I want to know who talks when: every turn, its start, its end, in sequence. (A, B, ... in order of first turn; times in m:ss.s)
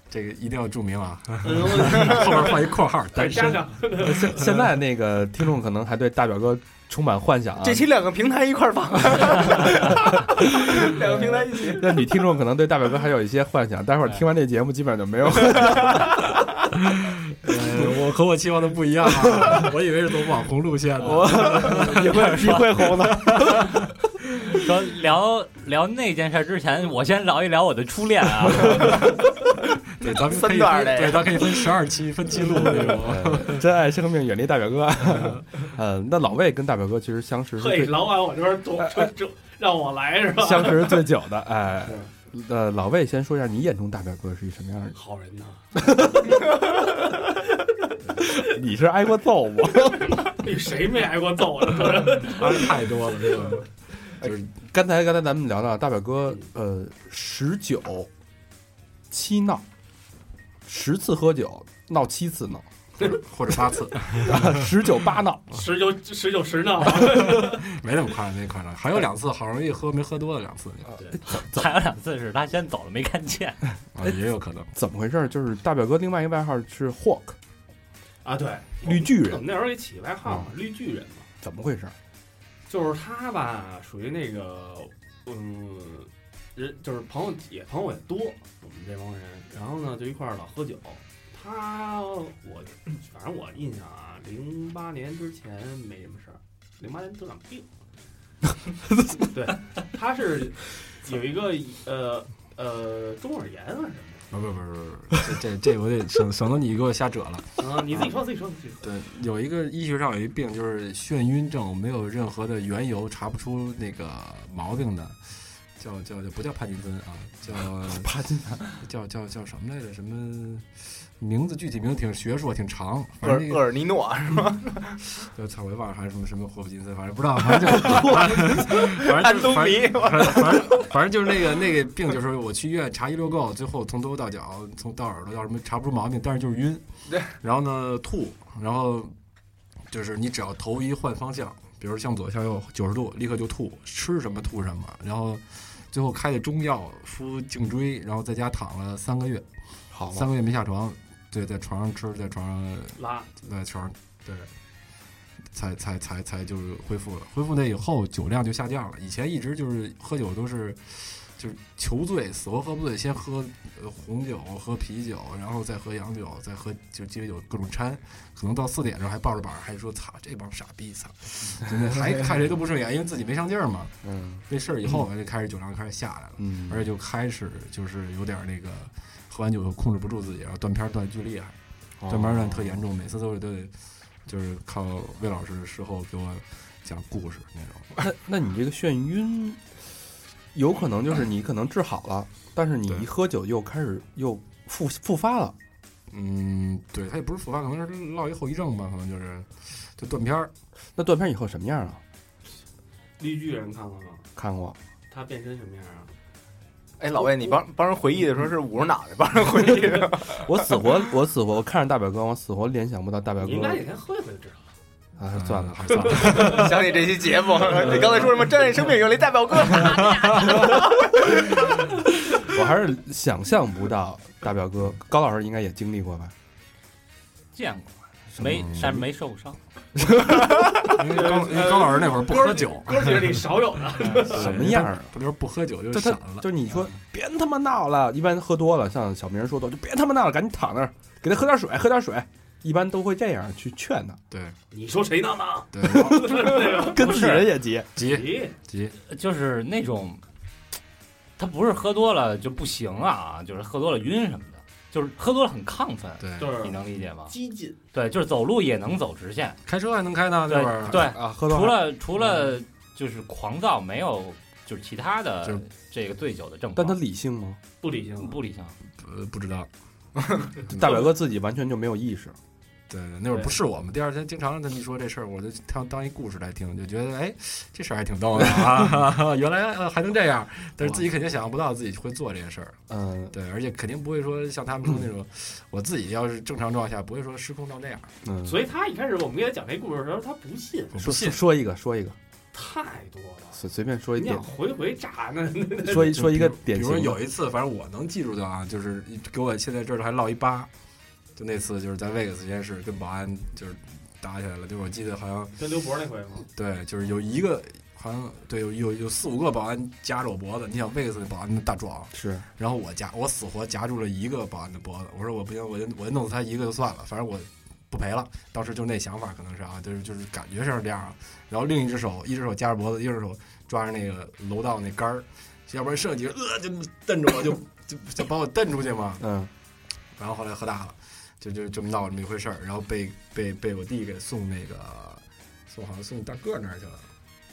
0:00.1-0:03.6 A
0:01.4-0:04.4 B
0:03.1-0:07.8 C
0:07.6-0:12.0 D
0:10.6-0:16.1 C
0:16.8-0:22.3 A
0:21.0-0:23.8 C
0:21.8-0:23.6 E
0:22.9-0:23.8 A
0:24.5-0:29.2 E
0:30.0-0:33.6 A
0:30.2-0:31.5 D
0:33.0-0:38.2 C
0:35.1-0:35.4 A
0:37.6-0:41.1 B
0:38.8-0:39.1 C
0:40.4-0:45.0 C
0:44.9-0:46.6 B
0:45.7-0:46.4 C
0:48.2-0:50.3 C
0:50.1-0:52.7 B
0:52.2-0:53.7 A
0:54.2-0:58.1 C
0:54.2-0:54.5 A
0:59.1-0:59.6 C
1:00.6-1:02.6 C
1:03.1-1:04.6 A
1:04.2-1:05.4 C
1:05.5-1:07.6 B
1:07.0-1:10.9 A
1:11.0-1:13.7 E
1:11.1-1:11.6 C
1:13.9-1:14.7 A
1:14.7-1:17.4 C
1:18.2-1:21.3 B
1:18.8-1:19.4 C
1:20.2-1:20.5 C
1:21.4-1:21.9 C
1:22.7-1:37.7 B
1:39.2-1:44.2 B
1:44.3-1:48.1 A
1:47.6-1:48.9 B
1:48.8-1:58.1 A
1:57.8-1:58.8 C
1:58.7-2:03.7 A
2:03.2-2:05.0 D
2:05.2-2:16.8 A
2:07.9-2:08.6 C
2:08.1-2:10.9 D
2:17.4-2:19.1 A
2:19.9-2:29.4 A
2:29.9-2:30.3 C
2:30.1-2:34.5 A
2:33.0-2:33.3 B
2:35.5-2:54.0 A
2:54.0-2:54.4 C
2:54.5-3:01.5 A
2:56.4-2:56.8 C
3:02.0-3:02.8 C
3:02.1-3:03.7 A
3:04.2-3:08.0 A
3:08.0-3:09.8 C
3:10.5-3:15.5 C
3:16.1-3:20.5 A
3:21.0-3:22.0 C
3:23.2-3:24.2 B
3:24.4-3:24.8 C
3:25.1-3:26.1 B
3:27.0-3:30.4 D
3:29.8-3:30.0 B
3:30.3-3:33.8 C
3:33.4-3:34.7 B
3:35.2-3:36.2 C
3:35.3-3:36.8 A
3:36.2-3:36.6 B
3:36.4-3:41.3 D
3:39.8-3:40.6 A
3:42.4-3:46.3 C
3:47.5-3:49.6 E
3:48.4-3:49.0 A
3:48.4-3:48.8 C
3:50.8-3:53.4 A
3:51.1-3:54.7 B
3:54.2-3:56.5 A
3:54.3-3:55.1 C
3:55.9-4:04.2 C
4:04.3-4:04.6 A
4:04.7-4:08.5 B
4:05.7-4:06.6 A
4:05.8-4:07.9 C
4:08.0-4:09.0 A
4:09.1-4:10.2 E
4:11.4-4:17.3 E
4:16.2-4:16.6 A
4:16.4-4:17.8 B
4:17.9-4:19.6 E
4:19.6-4:21.1 A
4:20.5-4:27.0 E
4:20.9-4:21.9 C
4:26.7-4:27.6 C
4:27.8-4:28.4 B
4:28.2-4:28.7 E
4:29.0-4:29.7 A
4:30.5-4:31.1 A
4:30.7-4:32.4 C
4:32.9-4:42.8 A
4:33.3-4:33.6 B
4:42.9-4:43.3 C
4:43.3-4:48.1 A
4:48.2-4:48.6 C
4:48.4-4:51.2 B
4:50.9-4:51.4 A
4:51.0-4:52.2 C
4:52.5-4:53.6 B
4:53.5-4:54.5 C
4:54.1-4:56.2 B
4:55.8-4:57.2 C
4:55.9-5:00.7 A
5:01.4-5:05.5 A
5:05.6-5:06.4 B
5:06.5-5:29.2 A
5:12.1-5:12.4 C
5:29.2-5:29.5 C
5:30.2-5:37.0 A